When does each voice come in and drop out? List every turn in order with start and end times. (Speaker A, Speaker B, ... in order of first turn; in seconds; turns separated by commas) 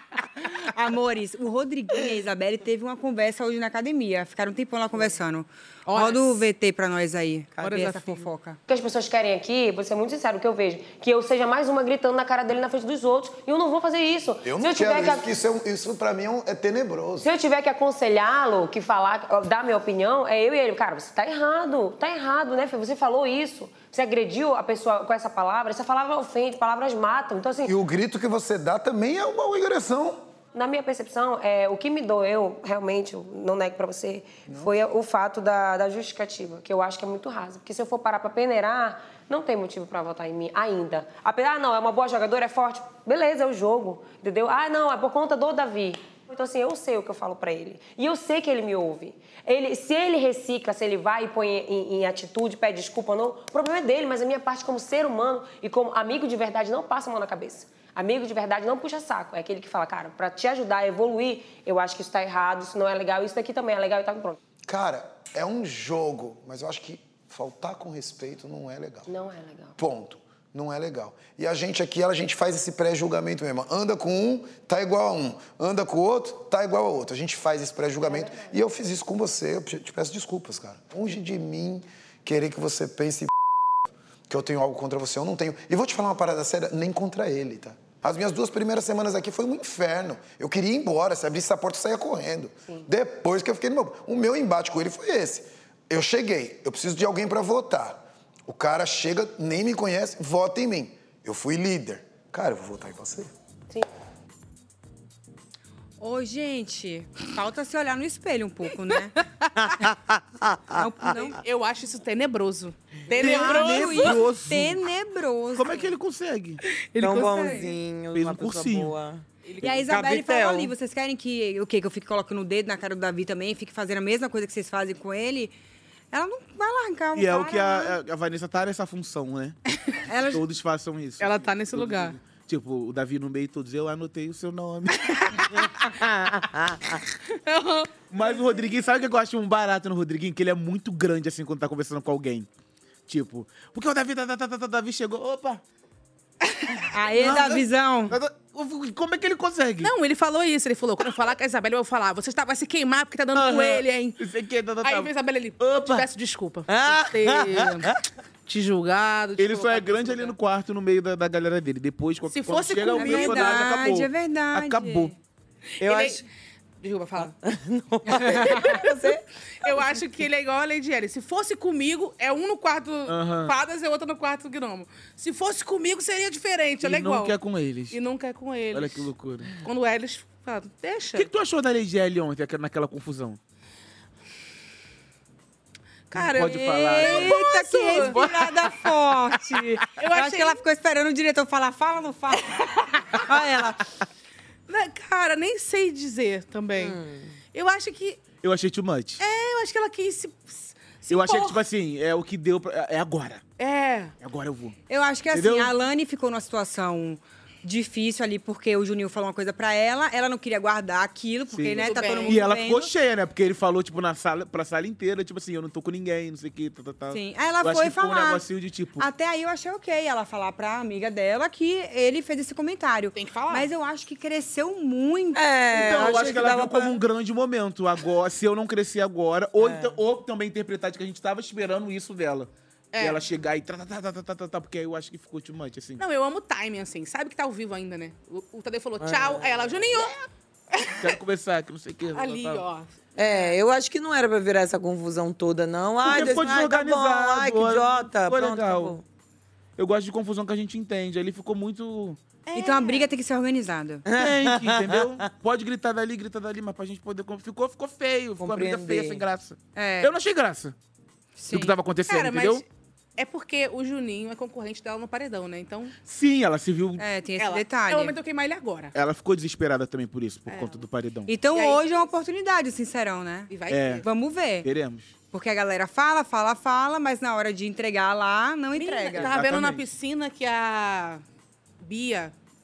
Speaker A: 0.6-8.6, Speaker B: 5.9-6.5, Speaker C: 7.6-7.9, Speaker B: 7.6-8.2, Speaker D: 8.7-15.2, Speaker E: 14.4-17.3, Speaker D: 17.2-27.7, Speaker E: 27.6-30.2, Speaker D: 30.5-64.4, Speaker E: 64.6-69.1, Speaker D: 69.1-69.7, Speaker E: 69.8-83.3, Speaker D: 78.0-78.6, Speaker E: 84.3-103.3, Speaker A: 106.0-109.1, Speaker C: 109.6-111.2, Speaker A: 110.8-111.4, Speaker B: 111.1-114.2, Speaker F: 113.2-114.8, Speaker A: 113.2-115.9, Speaker F: 115.5-116.6, Speaker B: 116.9-117.7, Speaker C: 117.0-120.7, Speaker A: 117.1-117.7, Speaker F: 118.1-118.9, Speaker B: 119.4-119.9, Speaker A: 119.6-125.5, Speaker A: 126.1-128.0, Speaker F: 127.1-129.6, Speaker A: 130.1-130.4, Speaker F: 130.2-135.2, Speaker B: 131.2-132.2, Speaker C: 135.9-137.0, Speaker B: 137.4-138.6, Speaker F: 138.1-142.5, Speaker F: 143.1-145.6, Speaker A: 146.9-148.2, Speaker F: 147.2-149.9, Speaker B: 149.8-154.2, Speaker F: 153.3-156.1, Speaker B: 154.8-157.9, Speaker C: 156.7-157.9, Speaker B: 158.5-160.3, Speaker F: 159.4-165.1, Speaker B: 162.3-163.7, Speaker A: 162.8-165.1, Speaker B: 165.8-166.2, Speaker C: 165.8-166.2, Speaker B: 166.8-167.3, Speaker C: 167.2-169.8, Speaker B: 168.2-168.9, Speaker A: 168.2-168.7, Speaker B: 169.6-177.3, Speaker F: 173.1-173.5, Speaker F: 176.8-178.0, Speaker B: 177.9-181.3, Speaker F: 178.7-179.5, Speaker F: 181.1-183.4, Speaker B: 186.1-188.9, Speaker F: 186.1-187.4, Speaker A: 186.5-192.6, Speaker F: 187.9-188.3, Speaker B: 190.0-190.6, Speaker B: 192.4-192.7, Speaker A: 193.1-193.8, Speaker B: 194.7-197.0, Speaker C: 196.8-197.4, Speaker B: 197.5-198.2, Speaker F: 198.4-199.2, Speaker B: 199.2-201.6, Speaker F: 201.1-203.4, Speaker B: 203.6-204.1, Speaker F: 204.2-204.8, Speaker A: 204.9-212.9, Speaker F: 205.3-205.7, Speaker F: 211.5-219.1, Speaker B: 211.8-212.4, Speaker A: 217.1-218.4, Speaker A: 219.0-226.2, Speaker B: 223.1-223.7, Speaker C: 225.3-227.0, Speaker F: 225.7-236.0, Speaker C: 229.6-230.0, Speaker B: 232.9-233.2, Speaker B: 236.0-240.1, Speaker C: 239.0-240.1, Speaker B: 240.7-241.1, Speaker F: 241.0-242.6, Speaker B: 242.1-243.6, Speaker C: 243.2-249.0, Speaker F: 246.0-248.9, Speaker F: 249.8-252.2, Speaker B: 252.5-253.1, Speaker A: 252.5-254.0, Speaker C: 254.1-255.1, Speaker F: 254.2-260.7, Speaker C: 258.4-259.2, Speaker A: 259.7-260.1, Speaker A: 261.4-261.8, Speaker F: 261.5-262.6, Speaker B: 262.1-262.6, Speaker B: 263.2-265.9, Speaker F: 266.1-267.0, Speaker A: 267.0-268.1, Speaker B: 267.4-268.9, Speaker F: 268.9-271.3, Speaker B: 270.5-270.8, Speaker A: 271.3-274.7, Speaker B: 271.5-272.0, Speaker B: 273.5-274.0, Speaker F: 273.7-274.1, Speaker F: 274.6-275.1, Speaker A: 275.3-279.4, Speaker B: 278.7-281.2, Speaker F: 279.2-279.9, Speaker B: 281.8-282.3